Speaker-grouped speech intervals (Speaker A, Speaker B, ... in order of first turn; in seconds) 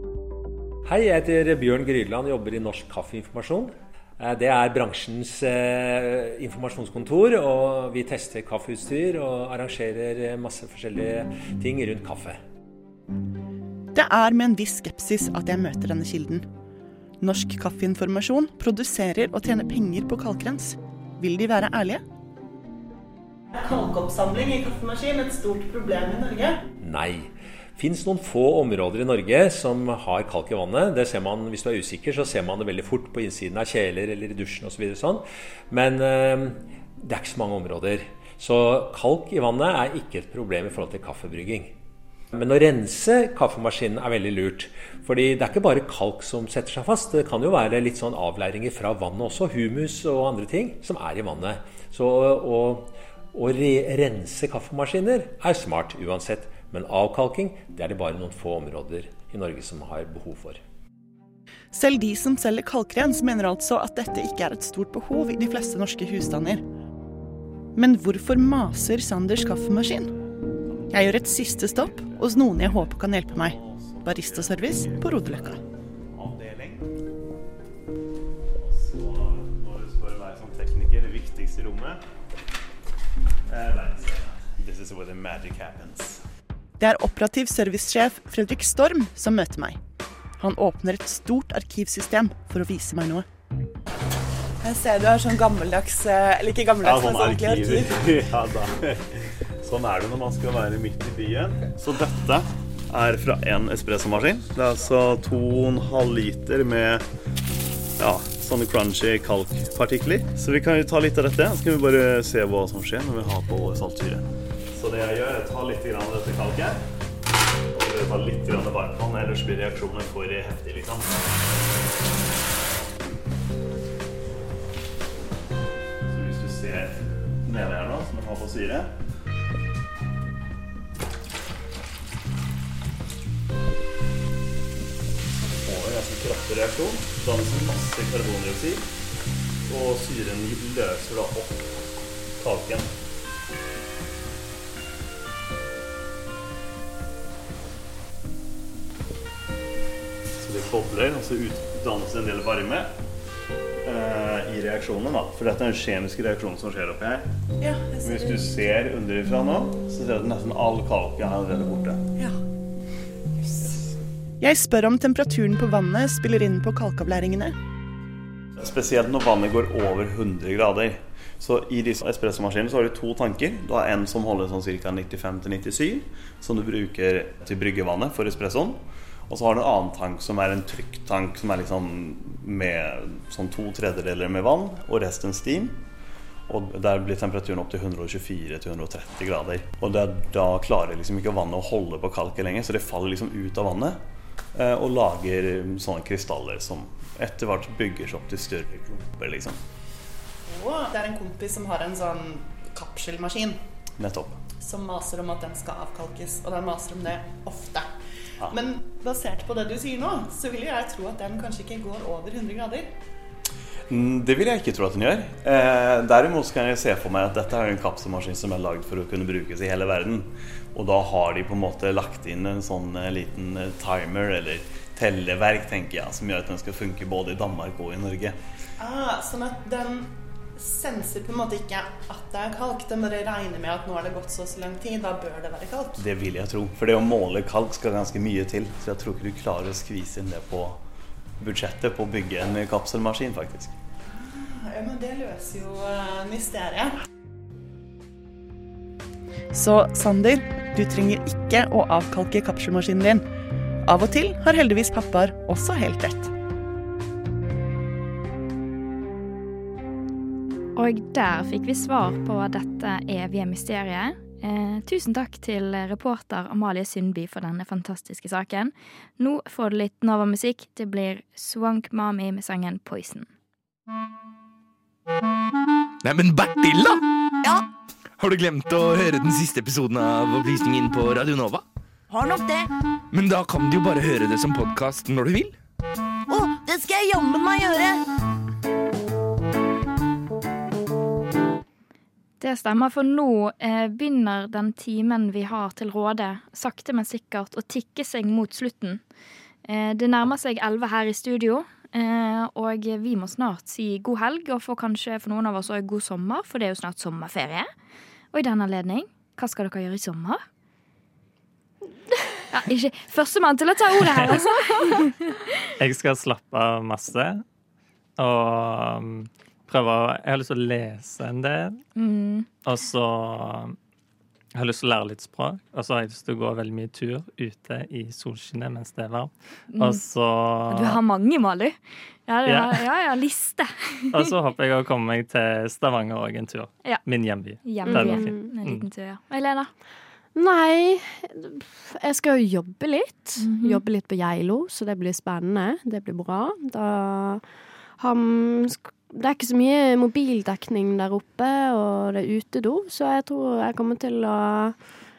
Speaker A: 0.8-12.4, 26.8-41.7, 42.3-60.6
Speaker B: 13.9-16.4, 17.2-22.0, 61.7-66.6, 67.8-70.1, 70.9-75.6, 86.8-89.8, 90.4-93.3, 95.8-97.8, 164.4-167.6, 249.5-253.2, 253.8-256.3
Speaker C: 23.5-26.6, 94.7-97.6, 157.6-158.4, 200.5-203.6, 204.5-207.9, 208.5-212.9, 228.8-236.0, 244.2-246.9
Speaker D: 70.6-75.6, 76.1-76.9, 78.6-82.0, 83.5-86.2, 96.8-99.0, 99.6-107.0, 108.0-116.8, 117.8-121.3, 126.1-128.9, 135.6-138.9, 139.7-141.8, 142.4-142.9, 150.4-152.9, 153.8-157.3, 158.0-162.1, 168.6-185.8, 186.5-194.0, 194.6-199.6, 204.0-204.5, 213.9-228.4, 236.0-240.8, 241.4-243.8
Speaker E: 260.8-273.3, 292.4-299.0, 299.7-307.7, 308.3-310.4, 312.5-315.4, 322.0-322.5, 329.7-330.0, 330.7-334.3, 337.6-339.7, 343.4-343.8
Speaker F: 276.0-277.0, 278.2-281.6, 283.1-285.6
Speaker G: 282.1-282.6, 286.3-288.0
Speaker H: 315.8-317.4, 318.2-321.8, 322.6-323.8, 324.6-331.0, 332.5-332.8, 334.1-338.8
Speaker I: 337.9-338.5, 340.4-347.4, 348.0-354.8